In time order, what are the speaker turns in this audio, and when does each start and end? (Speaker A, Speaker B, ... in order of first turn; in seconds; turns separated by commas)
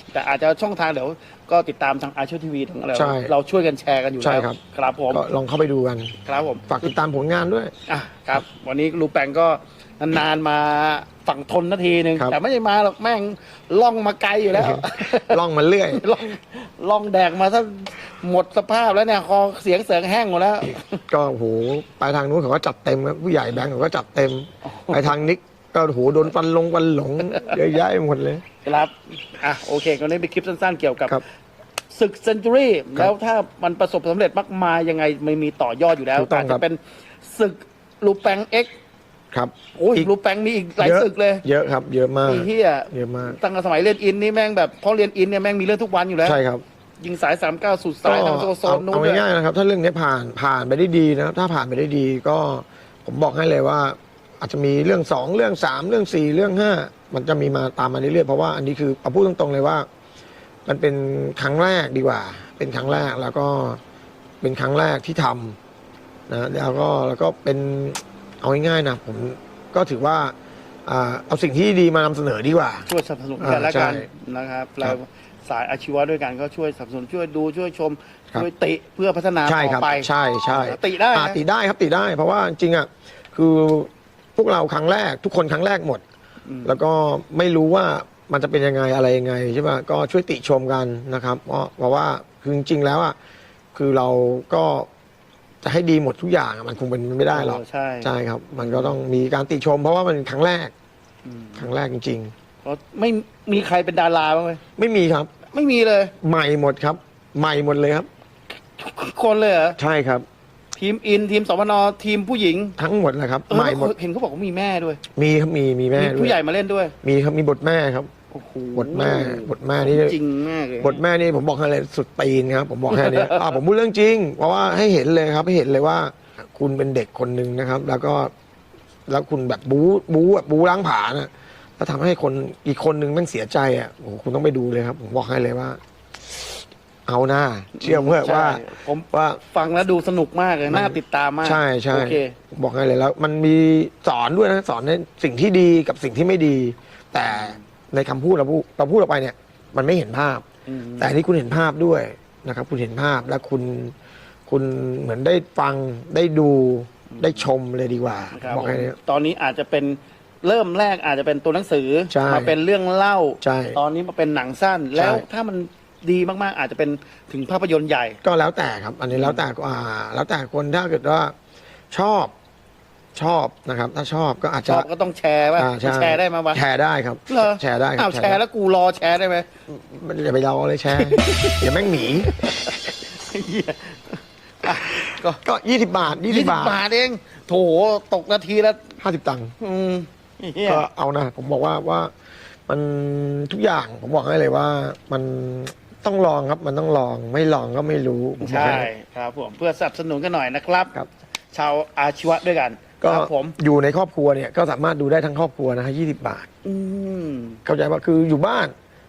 Speaker A: 0.1-5.2, Speaker B: 2.9-3.3, Speaker B: 4.2-4.6, Speaker B: 5.1-7.7, Speaker A: 6.2-6.7, Speaker A: 7.9-15.4, Speaker B: 14.5-16.0, Speaker A: 15.9-21.0, Speaker B: 21.1-28.4, Speaker A: 24.6-25.2, Speaker A: 28.6-31.2, Speaker A: 31.9-38.7, Speaker B: 36.1-36.6, Speaker B: 39.3-40.1, Speaker A: 39.7-41.4, Speaker B: 40.8-43.4, Speaker A: 42.2-46.4, Speaker B: 46.2-46.6, Speaker A: 47.0-49.2, Speaker B: 48.0-59.9, Speaker B: 60.6-63.8, Speaker B: 64.4-65.6, Speaker B: 66.3-70.3, Speaker B: 70.8-74.1, Speaker A: 72.9-81.4, Speaker B: 79.4-86.0, Speaker A: 86.5-86.8, Speaker B: 86.6-93.2, Speaker B: 93.7-94.9, Speaker B: 95.6-100.7, Speaker A: 97.3-99.0, Speaker A: 101.2-101.7, Speaker B: 101.6-102.3, Speaker A: 102.6-104.6, Speaker B: 104.8-105.3, Speaker A: 105.5-106.1, Speaker B: 106.2-108.1, Speaker A: 108.8-109.8, Speaker B: 109.8-110.2, Speaker A: 110.8-112.8, Speaker B: 112.8-113.9, Speaker A: 113.5-115.0, Speaker B: 115.1-116.4, Speaker A: 115.9-116.9, Speaker B: 117.0-118.1, Speaker A: 118.3-121.0, Speaker B: 118.7-120.2, Speaker B: 120.8-128.3, Speaker A: 122.9-123.5, Speaker B: 129.1-135.8, Speaker B: 137.1-139.4, Speaker A: 137.8-142.3, Speaker B: 140.7-150.4, Speaker A: 147.3-147.6, Speaker A: 150.7-151.2, Speaker B: 151.0-153.9, Speaker B: 154.5-159.0, Speaker A: 157.1-157.5, Speaker A: 158.3-168.2, Speaker B: 162.1-162.5, Speaker B: 163.4-163.8, Speaker B: 164.9-165.2, Speaker B: 168.2-171.3, Speaker A: 169.1-169.4, Speaker B: 171.9-172.3, Speaker B: 173.1-174.9, Speaker A: 174.7-176.6, Speaker B: 175.6-178.4, Speaker A: 177.3-179.5, Speaker B: 179.7-182.7, Speaker A: 180.9-185.4, Speaker B: 184.9-186.8, Speaker A: 186.3-189.0, Speaker B: 189.0-189.5, Speaker A: 189.6-190.8, Speaker B: 190.6-192.1, Speaker B: 192.7-198.9, Speaker A: 198.4-200.9, Speaker A: 201.5-203.5, Speaker B: 203.0-206.5, Speaker A: 206.6-207.6, Speaker B: 207.6-208.7